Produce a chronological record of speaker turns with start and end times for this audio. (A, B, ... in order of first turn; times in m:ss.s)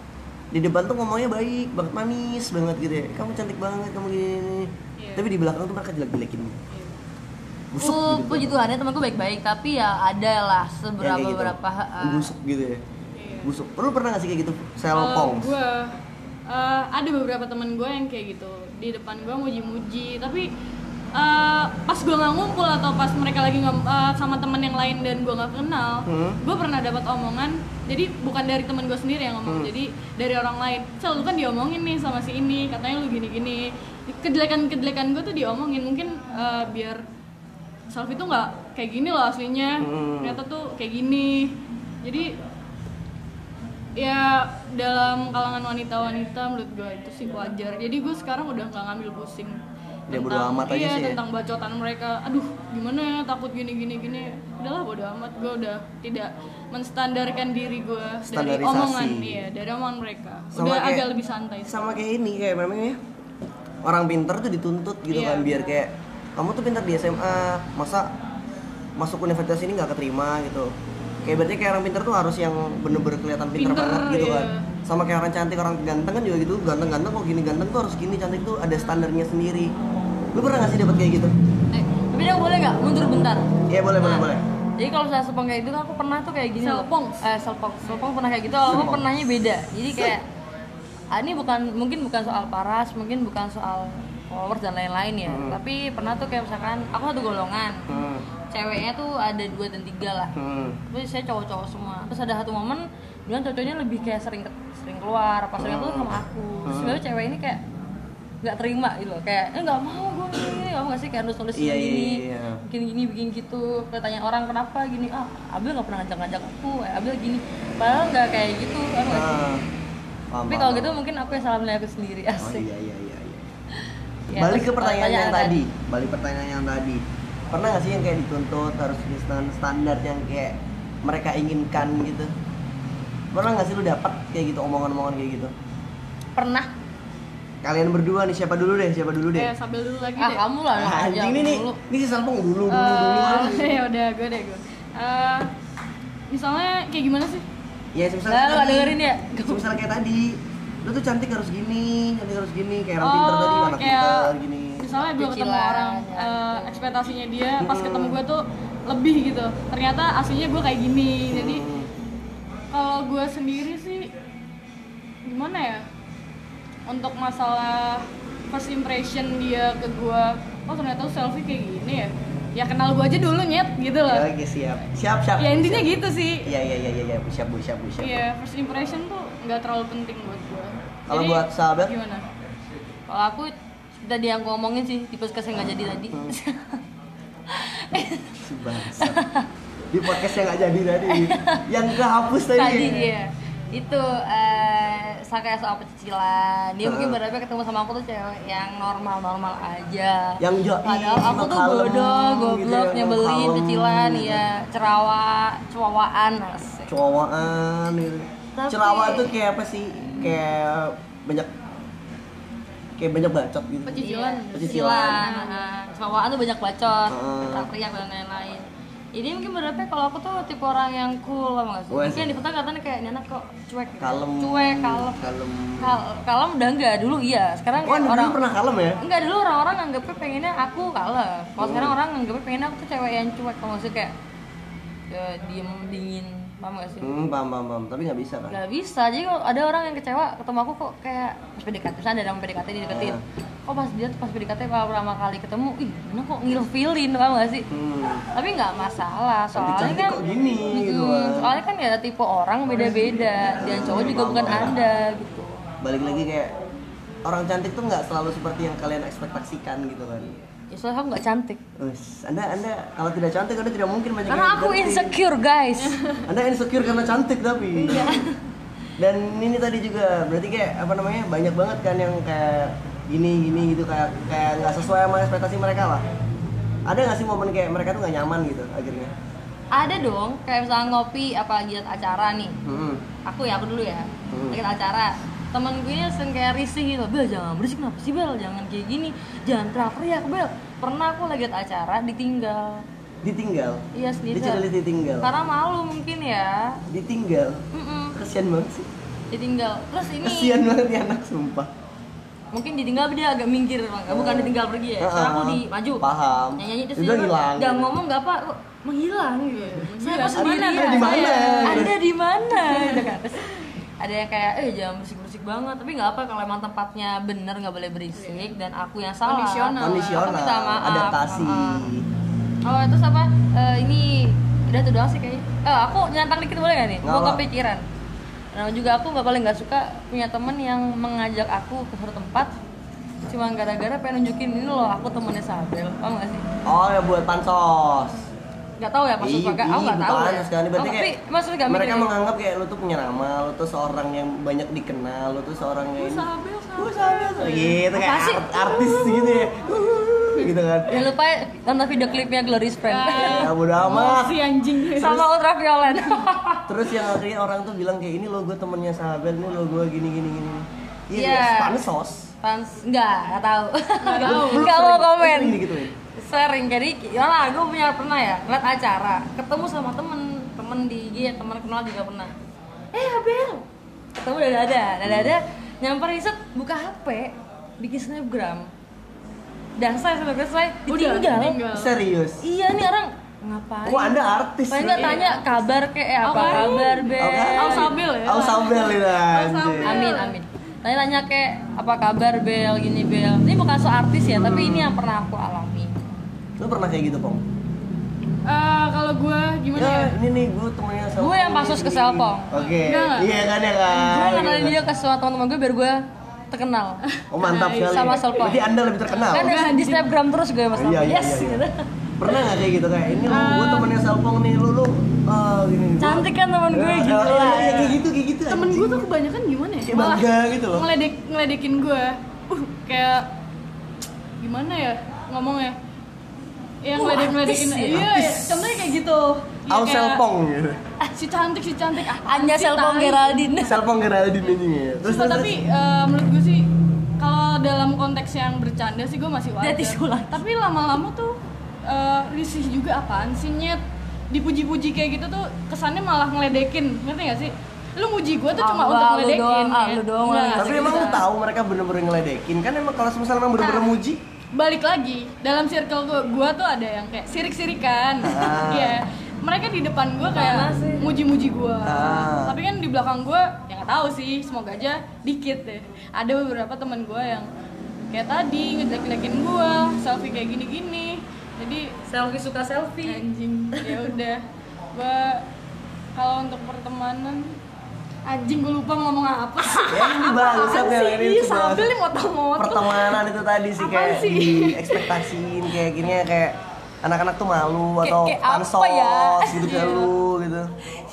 0:00.5-0:06.6 A
0:05.0-0:05.3 B
0:06.7-0:07.0 B
0:07.7-0:08.6 A
0:07.8-0:12.3 C
0:11.0-0:12.8 A
0:13.2-0:13.5 B
0:13.4-0:15.6 A
0:14.9-0:16.0 B
0:16.5-0:20.5 B
0:21.1-0:37.0 B
0:26.1-0:26.4 A
0:29.5-0:29.7 A
0:37.9-0:42.3 B
0:39.8-0:40.4 A
0:44.0-0:49.6 B
0:50.1-0:51.2 A
0:50.1-1:01.9 B
0:58.3-0:59.4 A
1:00.5-1:01.1 A
1:01.7-1:03.0 A
1:03.8-1:08.1 A
1:05.1-1:05.6 B
1:09.0-1:10.7 A
1:11.2-1:19.7 A
1:13.6-1:14.7 B
1:20.3-1:21.4 A
1:22.0-1:30.2 C
1:23.7-1:24.4 A
1:26.6-1:27.2 B
1:28.6-1:29.0 A
1:31.1-1:37.9 C
1:35.3-1:35.6 A
1:37.9-1:38.2 A
1:38.5-1:40.3 C
1:40.4-1:40.8 A
1:40.9-1:47.6 C
1:45.6-1:47.0 A
1:48.4-1:59.4 C
1:51.6-1:52.6 A
1:59.1-1:59.6 A
2:00.3-2:01.0 A
2:00.5-2:02.7 C
2:02.4-2:03.5 A
2:04.3-2:05.6 C
2:04.3-2:12.3 A
2:13.3-2:15.5 A
2:16.4-2:16.7 C
2:17.6-2:19.5 A
2:19.4-2:20.4 B
2:20.2-2:21.8 C
2:20.8-2:23.8 A
2:22.7-2:25.5 B
2:26.3-2:27.5 B
2:28.0-2:34.8 A
2:28.3-2:29.6 C
2:33.0-2:41.6 B
2:35.2-2:36.7 C
2:37.6-2:38.2 A
2:41.3-2:41.9 A
2:42.7-2:44.1 B
2:45.2-2:45.9 B
2:46.9-2:54.3 B
2:54.1-2:58.2 A
2:55.4-2:56.5 B
2:58.0-3:02.3 B
3:01.1-3:02.0 A
3:03.1-3:06.8 C
3:06.1-3:06.4 A
3:07.5-3:08.4 C
3:07.9-3:09.2 A
3:08.9-3:09.5 C
3:09.9-3:13.1 A
3:11.1-3:11.6 C
3:12.6-3:26.9 C
3:16.8-3:17.2 A
3:20.4-3:24.5 A
3:26.9-3:31.5 A
3:28.6-3:29.3 C
3:33.0-3:35.2 A
3:33.9-3:35.7 B
3:34.0-3:45.2 C
3:37.1-3:37.7 A
3:41.9-3:42.4 A
3:44.0-3:46.0 A
3:45.8-3:48.4 C
3:47.8-3:49.0 A
3:49.0-3:54.1 C
3:51.6-3:52.0 A
3:55.1-3:57.2 C
3:57.0-3:58.6 A
3:58.5-4:07.7 C
4:02.9-4:03.2 A
4:07.7-4:08.3 A
4:08.4-4:10.2 C
4:09.6-4:11.6 A
4:10.7-4:15.6 C
4:12.8-4:14.8 A
4:15.8-4:16.6 A
4:17.2-4:20.4 A
4:20.7-4:21.6 C
4:21.8-4:25.2 A
4:24.3-4:26.0 C
4:25.8-4:26.3 B
4:26.3-4:28.2 A
4:27.8-4:28.4 C
4:29.0-4:36.0 A
4:36.9-4:39.1 A
4:39.7-4:42.6 C
4:42.6-4:43.0 A
4:43.2-4:52.8 C
4:44.3-4:44.6 A
4:53.2-4:55.3 A
4:53.9-4:54.7 C
4:55.2-4:56.8 C
4:56.9-4:57.6 A
4:57.7-4:58.2 C
4:58.2-4:58.9 A
4:59.3-5:00.6 C
5:00.2-5:01.7 A
5:02.5-5:21.9 C
5:04.1-5:07.9 A
5:09.5-5:11.9 B
5:10.4-5:12.0 A
5:12.6-5:13.2 B
5:18.2-5:18.5 B
5:19.2-5:20.4 B
5:19.8-5:22.1 A
5:22.6-5:27.8 C
5:27.0-5:27.4 A
5:28.5-5:32.5 C
5:33.3-5:36.5 C
5:36.7-5:38.2 A
5:38.8-5:42.3 C
5:39.2-5:41.2 A
5:41.7-5:51.0 A
5:46.0-5:47.8 B
5:47.9-5:48.4 C
5:48.6-5:49.5 B
5:50.9-5:53.5 C
5:52.9-5:55.3 B
5:53.2-5:54.4 A
5:55.0-5:57.0 C
5:56.0-5:56.2 B
5:56.7-6:02.3 A
6:01.1-6:01.8 C
6:02.4-6:12.3 C
6:04.0-6:04.9 B
6:04.2-6:05.9 A
6:12.9-6:18.7 C
6:15.0-6:15.3 A
6:19.8-6:21.6 C
6:20.9-6:21.9 B
6:21.7-6:22.4 A
6:22.4-6:28.0 C
6:23.8-6:25.3 A
6:25.0-6:25.5 B
6:26.2-6:30.4 B
6:26.4-6:26.7 A
6:27.2-6:30.1 A
6:29.8-6:36.1 C
6:34.2-6:35.0 A
6:36.6-6:37.4 A
6:38.4-6:40.2 B
6:39.8-6:44.8 A
6:41.2-6:42.5 C
6:42.6-6:43.6 B
6:43.9-6:47.0 C
6:47.1-6:50.1 B
6:47.3-6:49.5 A
6:47.9-6:48.7 C
6:49.3-6:51.8 C
6:50.7-6:51.6 A
6:52.2-6:59.1 A
6:53.2-6:53.9 B
6:56.0-6:58.0 C
6:58.5-7:03.3 B
6:59.8-7:00.9 A
7:04.4-7:05.8 B
7:06.8-7:10.2 B
7:07.0-7:08.1 C
7:07.9-7:08.9 A
7:09.7-7:10.8 A
7:11.2-7:13.5 B
7:12.2-7:13.8 C
7:13.6-7:15.6 A
7:15.0-7:16.7 B
7:17.2-7:23.8 B
7:19.6-7:20.4 C
7:24.3-7:31.2 B
7:28.6-7:31.2 C
7:30.6-7:34.2 A
7:34.6-7:47.5 B
7:38.2-7:39.0 A
7:40.3-7:41.1 C
7:41.8-7:42.6 A
7:48.1-7:52.0 B
7:52.1-7:53.2 C
7:53.0-7:54.4 B
7:53.7-7:54.1 C
7:54.9-7:55.4 B
7:56.2-7:57.5 B
7:58.3-8:03.2 B
7:59.8-8:01.9 A
8:02.6-8:10.7 A
8:03.8-8:05.2 B
8:08.0-8:09.7 C
8:09.6-8:10.1 B